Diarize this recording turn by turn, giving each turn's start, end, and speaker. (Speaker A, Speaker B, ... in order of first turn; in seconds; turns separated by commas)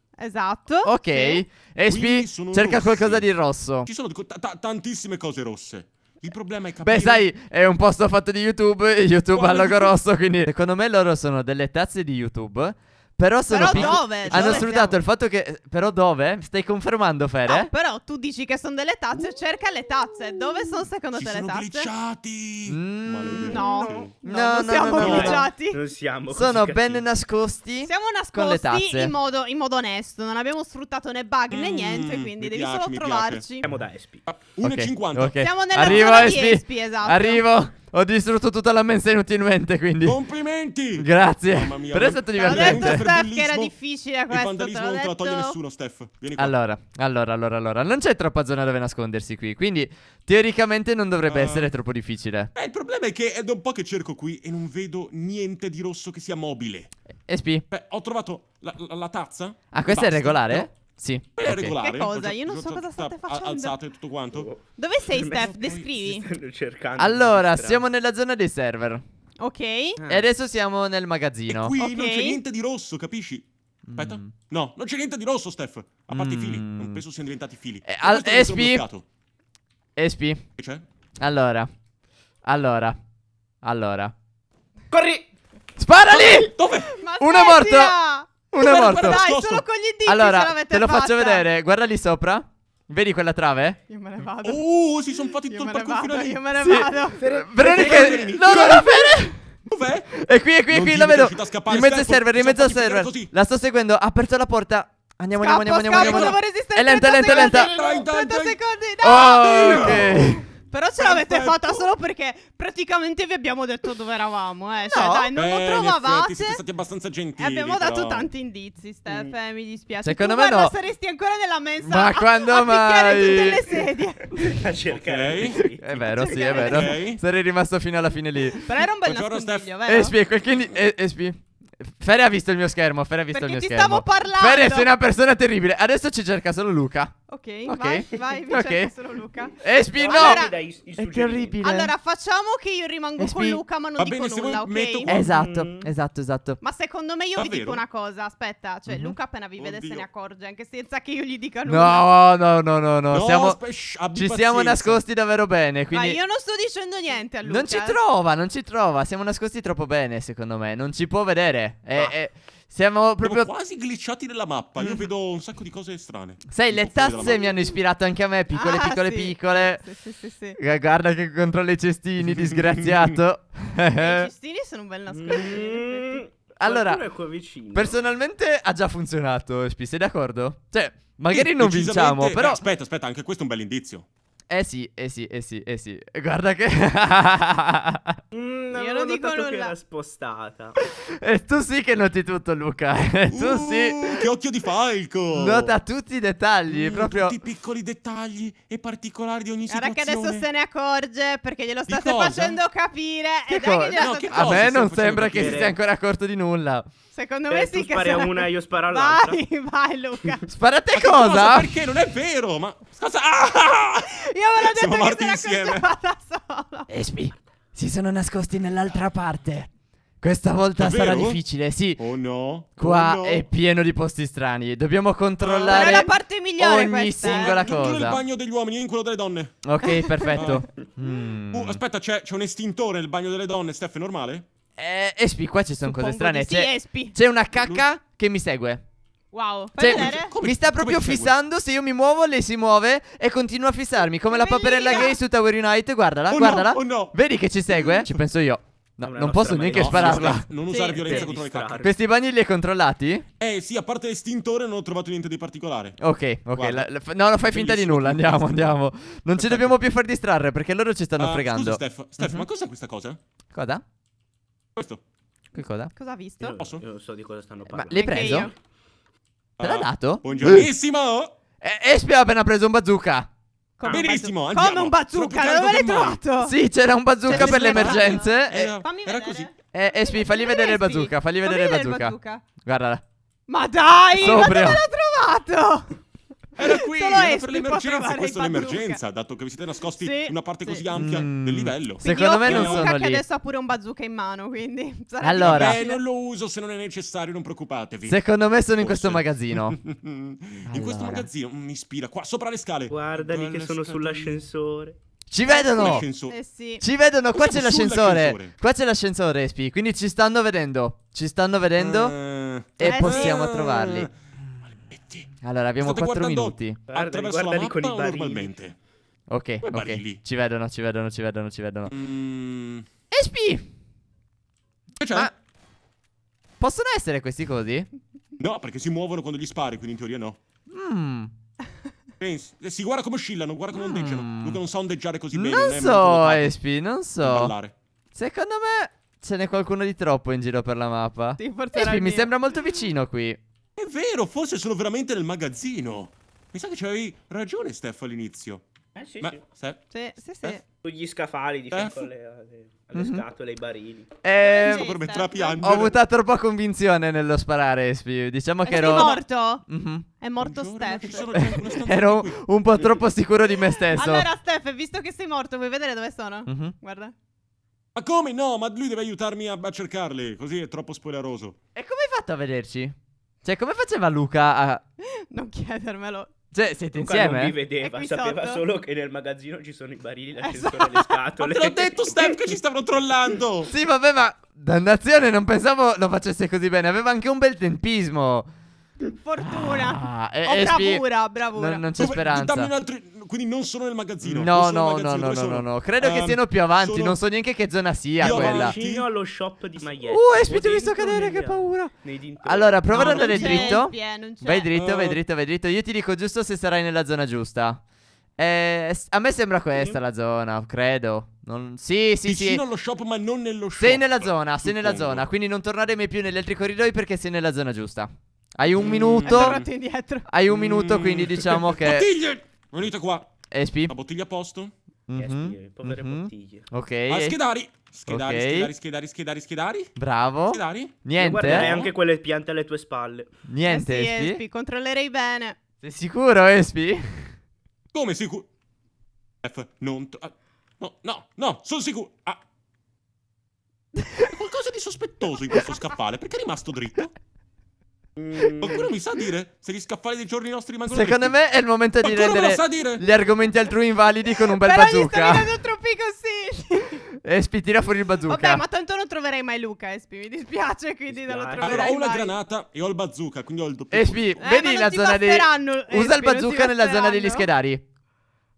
Speaker A: 0.2-1.4, Speaker B: 0.8-3.9, Speaker C: 1.9-7.3, Speaker B: 6.8-17.7, Speaker C: 9.3-9.9, Speaker A: 13.5-15.0, Speaker C: 13.6-14.7, Speaker A: 17.4-21.9, Speaker C: 21.1-23.7, Speaker B: 22.7-23.5, Speaker D: 23.3-24.1, Speaker A: 23.5-25.8, Speaker B: 24.2-25.5, Speaker D: 25.0-27.0, Speaker C: 25.0-25.4, Speaker B: 26.3-29.1, Speaker A: 27.8-33.6, Speaker C: 31.5-33.6, Speaker D: 33.6-34.2, Speaker C: 34.2-36.3, Speaker B: 34.6-40.2, Speaker A: 35.4-37.4, Speaker C: 40.0-43.7, Speaker B: 41.0-43.1, Speaker A: 42.4-45.5, Speaker C: 44.3-46.5, Speaker B: 46.4-52.5, Speaker C: 51.2-51.7, Speaker C: 52.5-56.9, Speaker B: 57.3-57.6, Speaker C: 57.7-60.7, Speaker B: 59.7-61.7, Speaker C: 61.4-64.5, Speaker A: 61.7-63.8, Speaker D: 64.3-67.9, Speaker A: 64.8-66.3, Speaker C: 65.3-66.0, Speaker B: 67.0-69.0, Speaker A: 69.4-70.0, Speaker D: 70.0-70.3, Speaker B: 70.1-71.7, Speaker C: 71.5-79.0, Speaker A: 71.8-72.4, Speaker B: 73.9-74.3, Speaker B: 76.1-77.0, Speaker B: 77.8-78.8, Speaker B: 80.0-80.4, Speaker C: 80.6-80.8, Speaker B: 81.2-81.7, Speaker B: 82.4-83.0, Speaker B: 83.6-84.1, Speaker D: 84.9-85.2, Speaker B: 85.8-86.5, Speaker C: 86.5-86.9, Speaker A: 86.7-91.5, Speaker B: 87.2-88.0, Speaker B: 88.5-89.2, Speaker C: 88.6-89.6, Speaker B: 90.0-93.8, Speaker A: 93.9-94.6, Speaker C: 94.4-96.5, Speaker A: 95.5-97.2, Speaker B: 96.5-99.4, Speaker C: 97.2-99.0, Speaker D: 97.3-98.3, Speaker C: 99.7-100.1, Speaker B: 100.1-107.7, Speaker C: 100.7-103.3, Speaker A: 105.3-116.6, Speaker C: 105.9-106.4, Speaker C: 107.2-108.6, Speaker B: 109.0-110.4, Speaker C: 109.4-110.2, Speaker C: 111.0-111.9, Speaker B: 114.9-115.3, Speaker C: 115.3-118.3, Speaker A: 117.4-124.4, Speaker D: 119.1-119.3, Speaker B: 120.0-120.7, Speaker B: 121.8-123.8, Speaker D: 124.3-126.6, Speaker C: 124.9-125.6, Speaker B: 125.6-128.6, Speaker A: 126.0-126.9, Speaker C: 126.6-127.2, Speaker A: 128.5-130.2, Speaker C: 129.0-129.7, Speaker B: 129.8-137.1, Speaker A: 133.3-134.9, Speaker A: 137.3-140.5, Speaker B: 137.7-138.9, Speaker B: 139.5-140.4, Speaker D: 139.9-141.6, Speaker B: 140.9-141.9, Speaker A: 141.6-145.2, Speaker B: 143.2-143.6, Speaker C: 144.0-145.2, Speaker B: 145.1-146.6, Speaker D: 145.1-145.9, Speaker A: 146.6-152.1, Speaker C: 147.3-147.8, Speaker B: 148.9-149.2, Speaker C: 149.6-150.1, Speaker B: 151.7-153.6, Speaker C: 153.1-155.0, Speaker B: 154.1-156.2, Speaker A: 155.9-158.0, Speaker B: 157.4-163.5, Speaker C: 163.2-167.7, Speaker B: 166.5-169.9, Speaker A: 168.5-170.6, Speaker B: 170.6-174.3, Speaker A: 173.9-176.2, Speaker D: 175.1-178.0, Speaker B: 176.6-177.0, Speaker B: 177.7-182.6, Speaker C: 181.3-184.1, Speaker B: 184.5-188.2, Speaker D: 188.3-190.8, Speaker A: 188.7-189.7, Speaker B: 191.2-194.3, Speaker C: 193.3-195.7, Speaker B: 195.3-197.3, Speaker C: 196.7-200.4, Speaker A: 199.7-204.6, Speaker C: 201.9-202.6, Speaker B: 203.5-206.9, Speaker C: 203.9-205.7, Speaker D: 205.3-205.7, Speaker A: 207.1-210.4, Speaker D: 207.5-209.4, Speaker B: 210.5-211.8, Speaker C: 210.9-215.9, Speaker A: 214.0-216.9, Speaker B: 216.9-219.7, Speaker B: 220.2-222.0, Speaker C: 220.8-221.4, Speaker C: 221.9-223.4, Speaker B: 222.8-228.2, Speaker C: 225.4-226.0, Speaker A: 225.7-227.7, Speaker C: 227.2-229.5, Speaker B: 229.6-231.8, Speaker A: 229.9-230.6, Speaker C: 230.2-230.7, Speaker C: 231.5-234.4, Speaker B: 234.8-238.8, Speaker A: 235.8-237.2, Speaker C: 237.6-237.9, Speaker A: 239.3-240.3, Speaker B: 239.8-250.5, Speaker C: 239.8-241.3, Speaker A: 244.3-245.2, Speaker C: 246.3-248.1, Speaker D: 249.0-252.0, Speaker C: 249.7-251.8, Speaker A: 250.7-251.2, Speaker B: 251.8-253.2, Speaker C: 253.4-256.0, Speaker B: 256.0-262.4, Speaker C: 256.5-256.9, Speaker C: 257.4-258.8, Speaker C: 259.4-259.7, Speaker C: 261.2-263.2, Speaker B: 263.5-263.8, Speaker C: 264.8-265.0, Speaker B: 265.5-265.9, Speaker A: 265.9-266.6, Speaker D: 266.4-268.5, Speaker C: 266.6-266.8, Speaker B: 267.7-268.5, Speaker A: 267.9-268.5, Speaker C: 269.6-271.3, Speaker B: 269.6-270.7, Speaker B: 271.6-273.3, Speaker A: 273.8-276.6, Speaker D: 273.8-274.1, Speaker C: 273.8-276.2, Speaker B: 276.4-278.7, Speaker A: 277.2-282.4, Speaker C: 277.3-279.5, Speaker B: 279.7-283.0, Speaker A: 283.5-286.0, Speaker B: 284.1-284.8, Speaker A: 286.6-289.0, Speaker C: 286.6-292.9, Speaker A: 290.0-290.8, Speaker B: 290.9-293.2, Speaker A: 292.0-296.0, Speaker B: 295.2-295.8, Speaker C: 295.4-298.2, Speaker B: 298.1-299.7, Speaker C: 298.7-304.4, Speaker B: 300.7-301.3, Speaker D: 302.9-304.9, Speaker B: 305.3-306.1, Speaker C: 305.7-306.3, Speaker A: 305.7-306.8, Speaker B: 306.8-312.1, Speaker C: 307.3-308.5, Speaker C: 311.8-314.1, Speaker B: 312.8-314.1, Speaker A: 312.8-313.4, Speaker C: 314.7-315.3, Speaker B: 315.4-316.8, Speaker C: 315.8-318.8, Speaker D: 316.9-318.6, Speaker B: 319.3-321.9, Speaker C: 319.6-320.2, Speaker C: 321.9-322.9, Speaker B: 323.1-323.6, Speaker C: 325.0-325.3, Speaker B: 326.6-327.9, Speaker C: 328.4-330.4, Speaker B: 330.7-331.3, Speaker C: 332.2-336.6, Speaker B: 333.7-334.6, Speaker B: 335.3-337.5, Speaker C: 337.2-337.7, Speaker B: 338.1-343.4, Speaker A: 341.4-342.3, Speaker C: 343.8-348.6, Speaker D: 348.9-349.4, Speaker C: 349.2-349.8, Speaker A: 349.9-350.6, Speaker D: 350.8-354.1, Speaker C: 351.7-352.1, Speaker B: 352.9-353.2, Speaker B: 354.2-354.9, Speaker A: 354.4-355.8, Speaker C: 354.6-356.0, Speaker B: 355.6-360.1, Speaker A: 358.6-359.6, Speaker A: 360.2-361.6, Speaker C: 360.4-362.8, Speaker B: 361.3-364.3, Speaker A: 363.9-367.1, Speaker B: 366.4-366.7, Speaker C: 367.9-371.6, Speaker B: 371.7-374.8, Speaker A: 375.3-376.3, Speaker B: 376.5-377.6, Speaker D: 376.9-382.6, Speaker A: 377.8-378.6, Speaker A: 380.4-381.2, Speaker C: 381.4-383.7, Speaker B: 383.7-388.5, Speaker A: 389.1-391.8, Speaker B: 389.4-392.7, Speaker C: 392.0-397.2, Speaker B: 394.2-398.8, Speaker C: 398.2-399.1, Speaker D: 398.2-403.6, Speaker B: 400.0-407.8, Speaker A: 402.9-404.7, Speaker C: 403.0-403.8, Speaker C: 404.7-405.2, Speaker B: 408.4-412.6, Speaker C: 412.2-415.3, Speaker B: 413.8-419.6, Speaker C: 418.8-419.7, Speaker A: 419.2-420.2, Speaker B: 420.3-422.1, Speaker C: 420.5-423.3, Speaker B: 423.5-423.9, Speaker C: 423.9-424.7, Speaker B: 425.1-427.4, Speaker D: 425.1-426.7, Speaker C: 427.1-429.9, Speaker B: 428.1-428.7, Speaker B: 429.9-431.7, Speaker C: 430.5-431.9, Speaker D: 431.2-433.3, Speaker B: 433.5-434.4, Speaker A: 433.6-435.6, Speaker B: 435.8-437.3, Speaker C: 437.9-438.5, Speaker C: 439.4-442.4, Speaker C: 444.2-447.1, Speaker D: 448.1-448.9, Speaker C: 448.6-451.3, Speaker B: 450.9-455.5, Speaker C: 452.0-453.0, Speaker A: 454.5-457.0, Speaker B: 457.2-458.6, Speaker A: 458.3-462.3, Speaker D: 461.1-462.0, Speaker C: 461.6-464.3, Speaker B: 463.9-467.8, Speaker A: 464.4-467.5